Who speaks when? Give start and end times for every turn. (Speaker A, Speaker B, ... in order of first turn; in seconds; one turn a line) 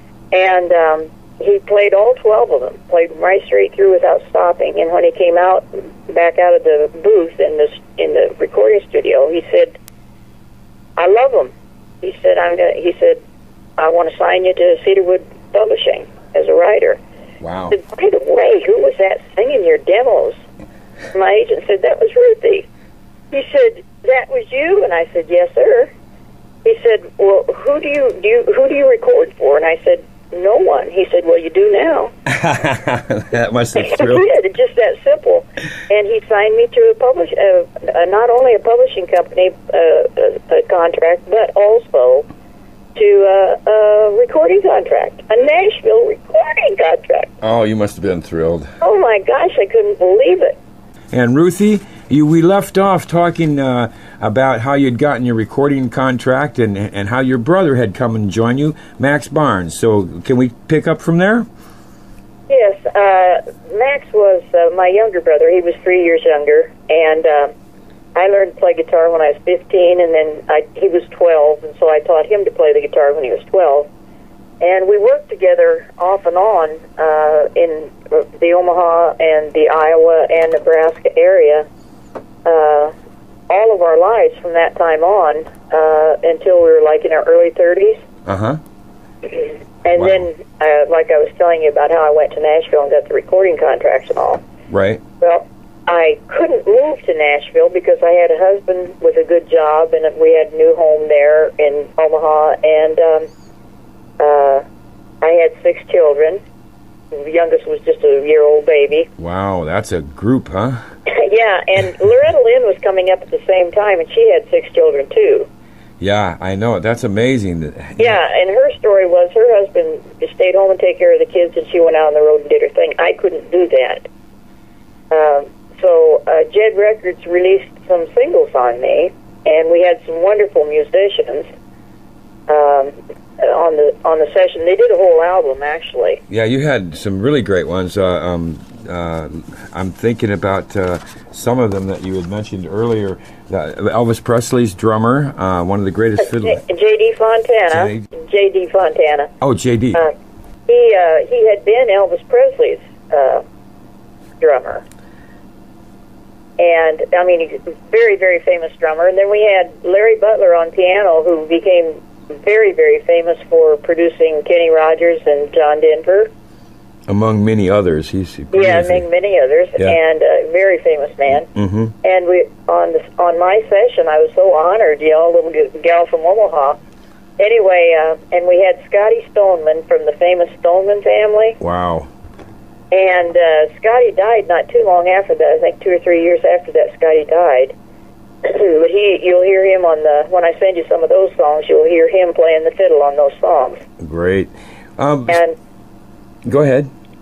Speaker A: 0.3-9.8
Speaker A: 11.0-13.2
Speaker A: 13.8-17.0
Speaker B: 17.4-17.8
Speaker A: 17.7-20.4
Speaker A: 21.1-22.7
Speaker A: 23.3-25.9
Speaker A: 26.6-32.1
Speaker B: 32.3-34.3
Speaker A: 33.8-42.3
Speaker A: 43.0-47.3
Speaker B: 47.4-48.7
Speaker A: 48.8-50.6
Speaker B: 51.1-61.5
Speaker A: 62.5-67.5
Speaker A: 68.2-73.9
Speaker A: 74.6-81.7
Speaker A: 82.5-82.9
Speaker A: 83.5-88.0
Speaker B: 88.3-88.6
Speaker A: 89.3-94.4
Speaker B: 90.0-90.3
Speaker B: 94.7-95.0
Speaker A: 95.2-103.3
Speaker A: 104.2-104.6
Speaker A: 105.2-106.4
Speaker A: 107.1-109.1
Speaker B: 109.2-110.8
Speaker A: 111.1-115.5
Speaker B: 116.0-118.2
Speaker A: 118.0-124.1
Speaker A: 125.1-131.5
Speaker A: 132.5-136.2
Speaker B: 136.3-146.6
Speaker A: 146.2-149.3
Speaker B: 147.7-148.1
Speaker B: 149.4-150.1
Speaker A: 150.7-153.4
Speaker A: 154.4-154.8
Speaker A: 156.6-166.3
Speaker B: 167.1-169.1
Speaker A: 168.5-171.5
Speaker B: 171.5-171.9
Speaker A: 172.0-176.8
Speaker A: 177.4-181.6
Speaker B: 181.6-182.1
Speaker A: 182.9-187.7
Speaker A: 188.4-193.8
Speaker B: 194.0-195.4
Speaker A: 195.3-195.6
Speaker B: 196.5-196.9